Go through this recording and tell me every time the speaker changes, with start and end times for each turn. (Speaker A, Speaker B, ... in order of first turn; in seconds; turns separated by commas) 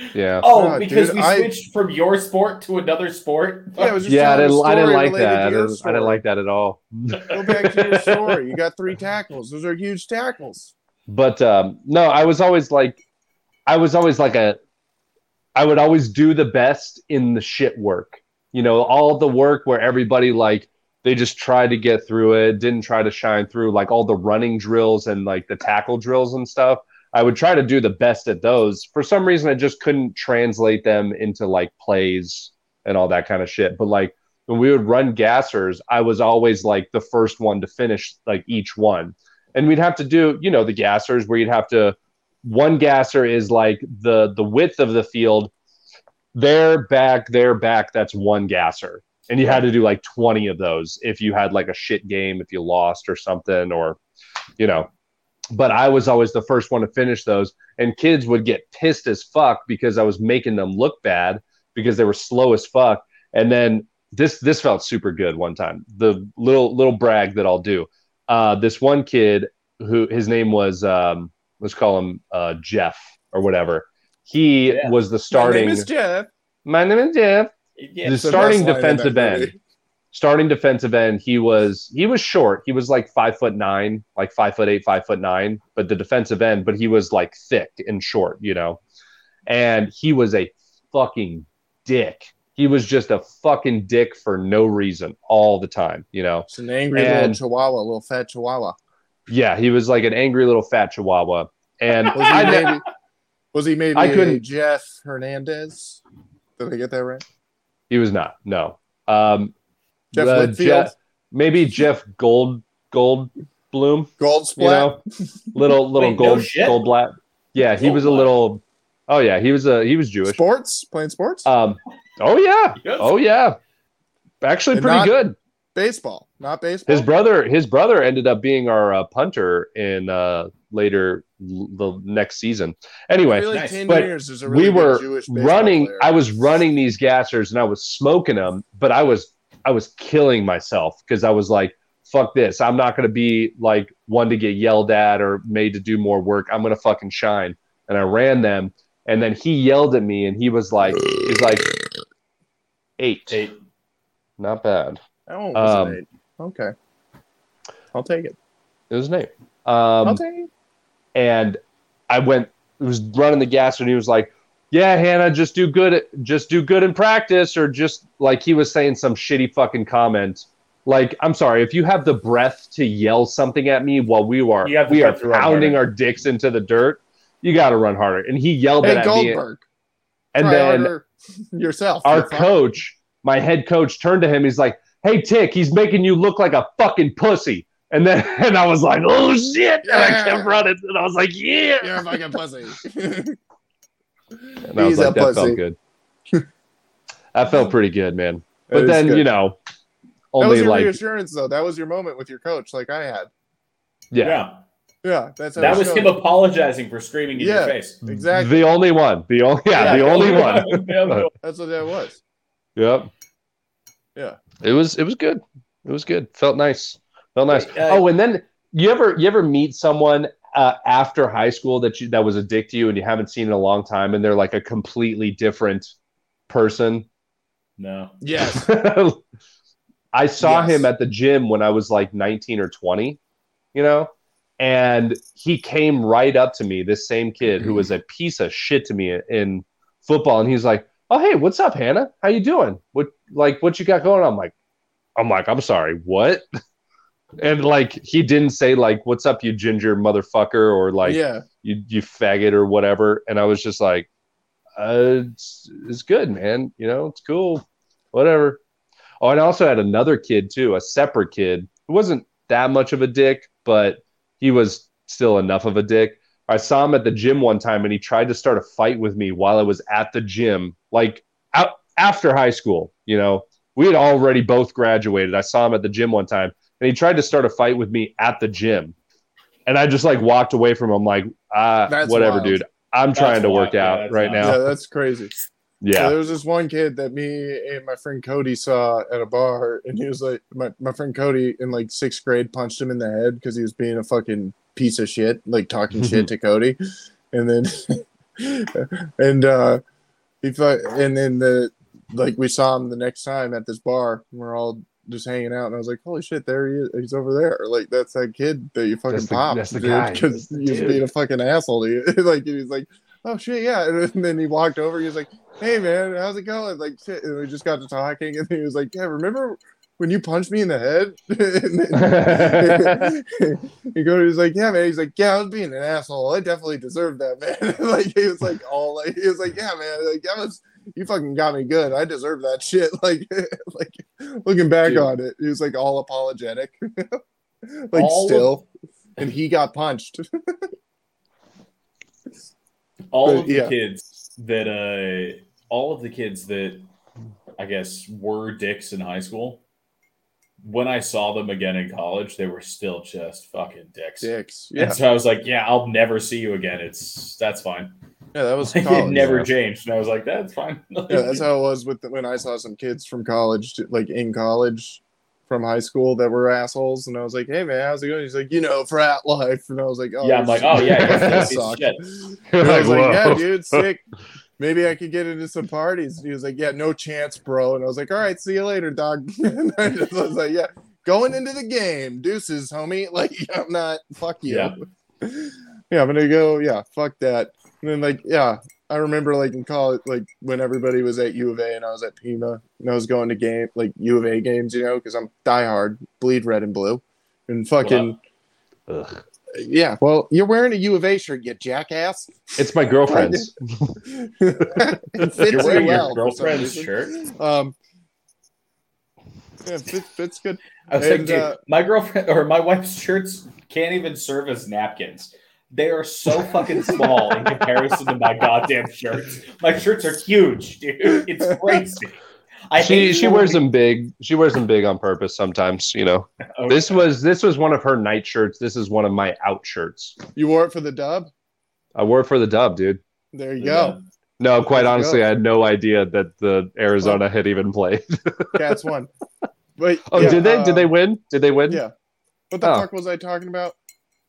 Speaker A: 0.1-0.4, Speaker B: 0.4-4.0, Speaker C: 0.5-1.5, Speaker C: 3.8-6.2, Speaker A: 4.0-7.5, Speaker B: 7.1-8.3, Speaker C: 7.3-10.7, Speaker A: 11.1-13.0, Speaker A: 13.7-14.6, Speaker A: 15.5-45.5, Speaker A: 46.3-54.0, Speaker A: 54.6-54.9, Speaker A: 55.5-75.9, Speaker B: 74.7-75.0, Speaker C: 75.3-76.3, Speaker A: 76.6-77.5, Speaker B: 77.8-78.5, Speaker A: 78.0-79.5, Speaker C: 78.2-79.6, Speaker A: 80.1-88.8, Speaker A: 89.5-97.4, Speaker C: 96.5-98.8, Speaker A: 99.3-102.8, Speaker C: 102.1-102.8, Speaker B: 102.3-102.8, Speaker C: 103.5-106.0, Speaker A: 103.9-104.4, Speaker C: 106.6-107.2, Speaker A: 107.9-109.5, Speaker C: 110.1-110.9, Speaker A: 110.1-115.0, Speaker C: 114.2-115.0, Speaker A: 115.5-120.4, Speaker B: 115.9-116.8, Speaker B: 117.7-118.3, Speaker C: 120.3-121.5, Speaker A: 121.4-123.6, Speaker B: 122.8-123.1, Speaker A: 124.4-125.3, Speaker C: 124.7-125.1, Speaker C: 125.7-127.1, Speaker A: 126.9-151.7, Speaker C: 133.3-136.2, Speaker B: 133.5-133.8, Speaker A: 153.0-153.4, Speaker A: 154.4-155.0, Speaker C: 155.3-156.7, Speaker A: 155.5-156.0, Speaker C: 157.9-158.3, Speaker A: 158.9-160.2, Speaker C: 160.0-160.5, Speaker A: 161.1-161.6, Speaker A: 162.1-179.4, Speaker B: 174.6-175.8, Speaker C: 178.8-179.6, Speaker A: 180.3-180.9, Speaker C: 180.4-182.5, Speaker A: 182.0-192.2, Speaker C: 189.8-190.6, Speaker C: 191.8-193.4, Speaker C: 194.4-195.6, Speaker A: 194.7-195.8, Speaker A: 197.3-199.6, Speaker C: 198.7-199.2, Speaker A: 200.3-201.0, Speaker C: 200.4-203.3, Speaker A: 204.1-204.4, Speaker B: 204.2-204.6, Speaker C: 205.0-206.2, Speaker B: 205.6-208.0, Speaker C: 207.3-208.7, Speaker A: 208.1-211.2, Speaker B: 209.7-211.3, Speaker C: 209.8-210.6, Speaker C: 211.4-212.2, Speaker A: 212.8-213.1, Speaker A: 214.6-225.9, Speaker B: 217.5-218.0, Speaker A: 226.5-227.1, Speaker B: 227.8-228.2, Speaker C: 228.2-228.7, Speaker A: 228.4-229.2, Speaker A: 230.1-233.2, Speaker C: 230.4-230.8, Speaker A: 233.7-244.5, Speaker A: 245.2-246.4, Speaker A: 247.4-254.1, Speaker C: 251.0-251.4, Speaker A: 254.8-258.6, Speaker A: 259.2-278.9, Speaker A: 279.6-284.6, Speaker C: 281.9-282.6, Speaker B: 283.1-284.6, Speaker C: 284.4-285.3, Speaker A: 285.8-286.1, Speaker C: 285.9-296.8, Speaker A: 296.0-296.3, Speaker C: 297.3-299.8, Speaker C: 300.4-338.6, Speaker A: 309.1-311.0, Speaker A: 321.9-323.1, Speaker B: 334.8-335.1, Speaker B: 337.9-338.6, Speaker C: 339.2-340.7, Speaker B: 343.1-346.9, Speaker C: 343.2-343.7, Speaker B: 347.6-349.6, Speaker B: 350.6-357.9, Speaker C: 354.2-355.0, Speaker C: 358.3-359.4, Speaker B: 358.6-361.4, Speaker A: 359.2-359.5, Speaker C: 361.1-374.0, Speaker B: 370.2-372.1, Speaker A: 371.0-371.5, Speaker A: 372.5-373.9, Speaker C: 374.6-398.2, Speaker B: 384.4-384.7, Speaker B: 397.8-398.1, Speaker A: 398.9-399.2, Speaker C: 399.5-403.5, Speaker A: 402.6-404.0, Speaker C: 404.0-407.7, Speaker B: 405.4-407.2, Speaker C: 409.6-411.6, Speaker B: 410.9-422.2, Speaker C: 416.7-417.2, Speaker B: 422.7-423.6, Speaker A: 422.8-430.1, Speaker B: 426.6-427.1, Speaker C: 430.4-431.3, Speaker A: 431.9-433.0, Speaker C: 433.3-434.0, Speaker B: 433.6-434.0, Speaker A: 434.4-438.6, Speaker C: 434.7-435.2, Speaker C: 438.5-439.1, Speaker C: 439.8-440.9, Speaker A: 440.1-441.8, Speaker C: 442.5-443.8, Speaker A: 442.6-442.9